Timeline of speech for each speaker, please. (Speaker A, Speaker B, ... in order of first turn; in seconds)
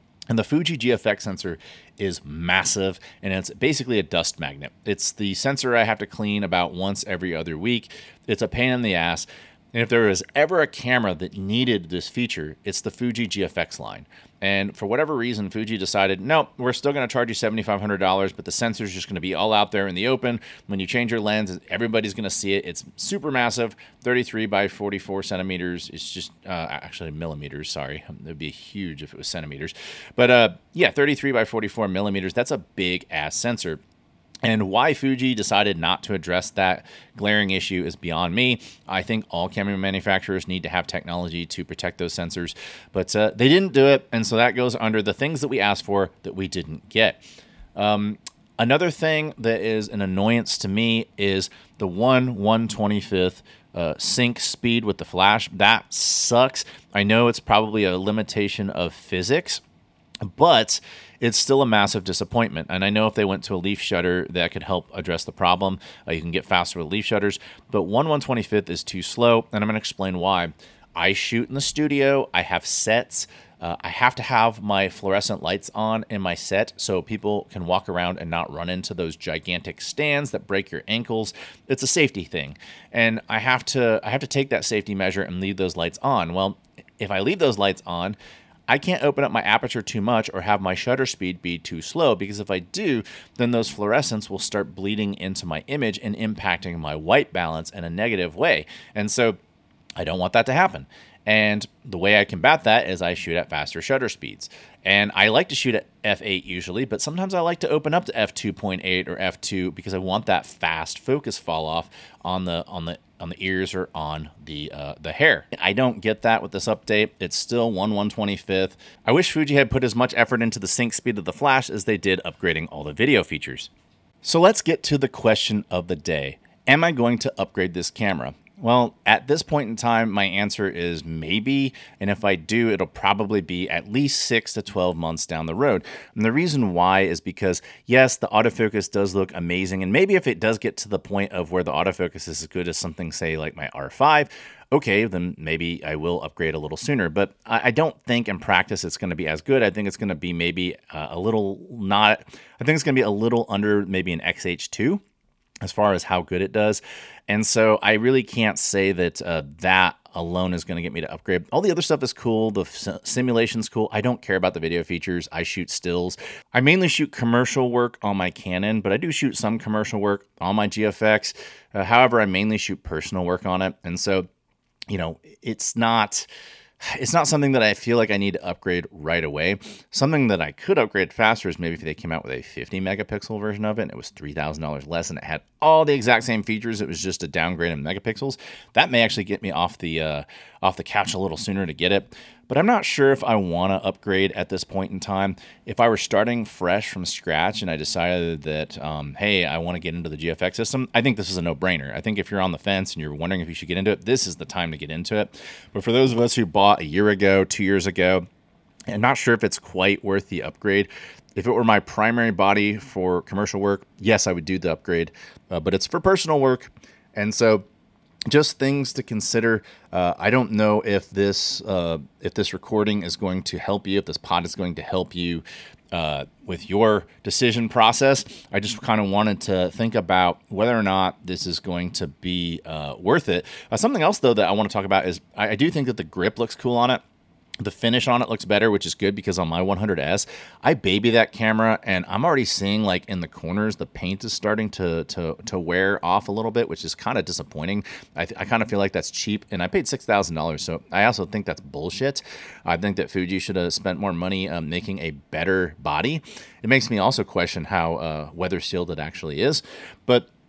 Speaker A: 0.3-33.8, 34.4-47.2, 47.8-59.6, 60.2-88.2, 88.7-99.4, 100.0-123.7, 124.2-155.0, 155.6-174.3, 174.9-176.3, 176.8-208.2, 208.9-217.6, 218.3-237.0, 237.6-260.3